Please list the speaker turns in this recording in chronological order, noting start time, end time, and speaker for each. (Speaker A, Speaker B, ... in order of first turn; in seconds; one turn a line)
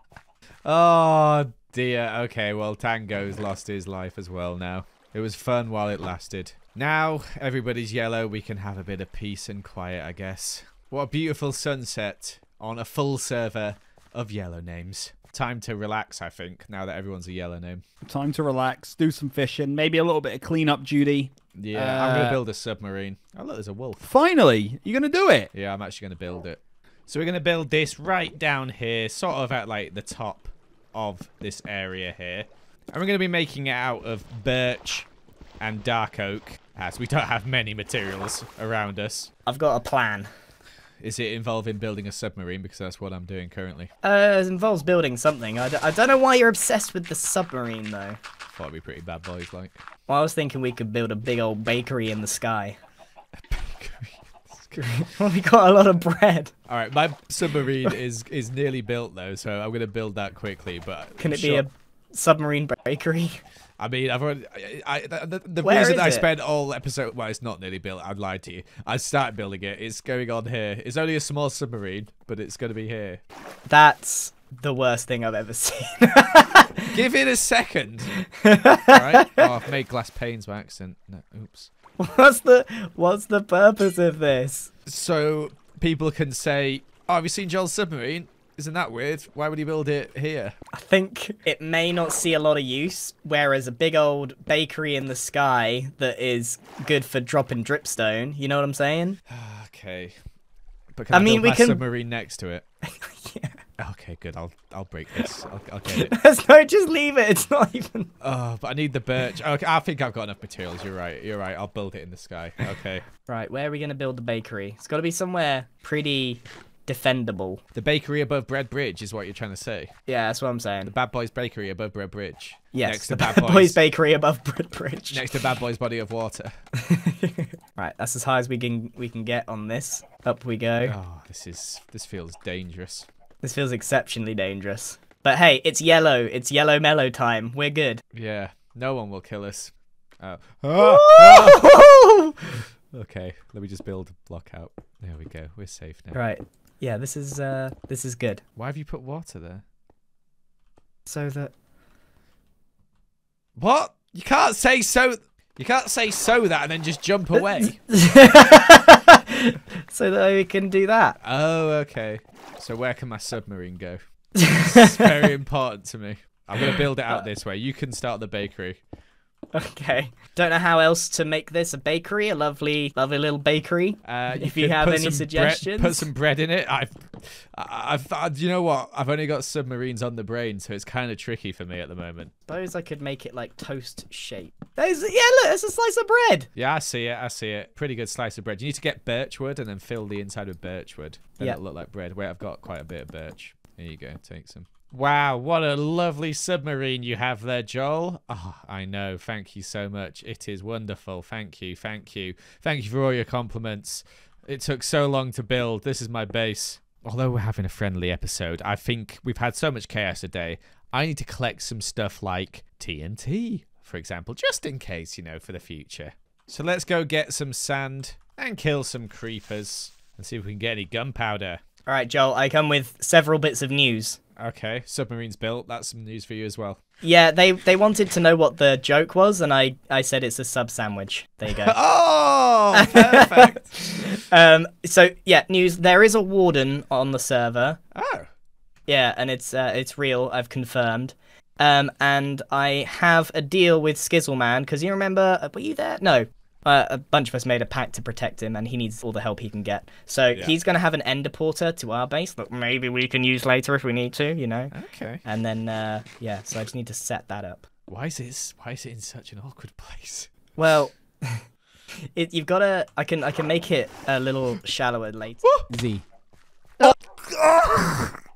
Speaker A: 0.7-17.8
Speaker B: 18.0-22.4
Speaker A: 21.6-24.1
Speaker B: 24.0-25.5
Speaker A: 25.5-35.1
Speaker A: 35.6-39.3
Speaker C: 39.5-40.3
Speaker A: 41.0-43.9
Speaker C: 44.0-48.2
Speaker A: 48.5-49.8
Speaker C: 50.1-52.8
Speaker A: 53.5-54.9
Speaker C: 54.8-56.5
Speaker A: 56.7-61.7
Speaker C: 61.2-63.4
Speaker A: 63.8-73.2
Speaker C: 65.6-66.3
Speaker C: 73.7-76.9
Speaker A: 76.9-78.2
Speaker C: 78.4-79.5
Speaker A: 78.9-81.7
Speaker C: 82.0-84.7
Speaker A: 84.9-90.6
Speaker C: 90.7-99.2
Speaker A: 99.3-100.2
Speaker A: 101.0-102.7
Speaker C: 101.1-101.8
Speaker C: 103.0-103.6
Speaker A: 103.8-106.1
Speaker C: 105.9-108.1
Speaker A: 108.2-113.0
Speaker C: 113.3-117.6
Speaker A: 117.7-119.9
Speaker C: 120.1-120.9
Speaker A: 120.8-123.8
Speaker C: 122.7-125.2
Speaker A: 125.1-126.6
Speaker C: 126.8-130.9
Speaker A: 130.8-133.1
Speaker C: 133.4-138.0
Speaker A: 138.1-141.8
Speaker C: 140.8-142.4
Speaker A: 142.9-146.2
Speaker C: 146.1-148.4
Speaker A: 148.6-149.6
Speaker C: 151.1-151.5
Speaker A: 153.6-157.8
Speaker C: 157.6-161.2
Speaker A: 161.2-168.8
Speaker C: 164.4-165.1
Speaker C: 166.6-167.2
Speaker C: 169.5-176.1
Speaker A: 174.0-182.3
Speaker C: 182.5-186.5
Speaker A: 186.6-221.6
Speaker C: 221.9-224.2
Speaker A: 224.4-226.8
Speaker C: 227.0-231.8
Speaker A: 231.5-233.8
Speaker C: 232.7-237.8
Speaker A: 237.9-238.3
Speaker C: 238.9-257.6
Speaker A: 254.7-255.2
Speaker A: 257.9-260.3
Speaker C: 260.6-261.4
Speaker C: 262.1-265.6
Speaker B: 265.7-266.0
Speaker B: 266.8-268.1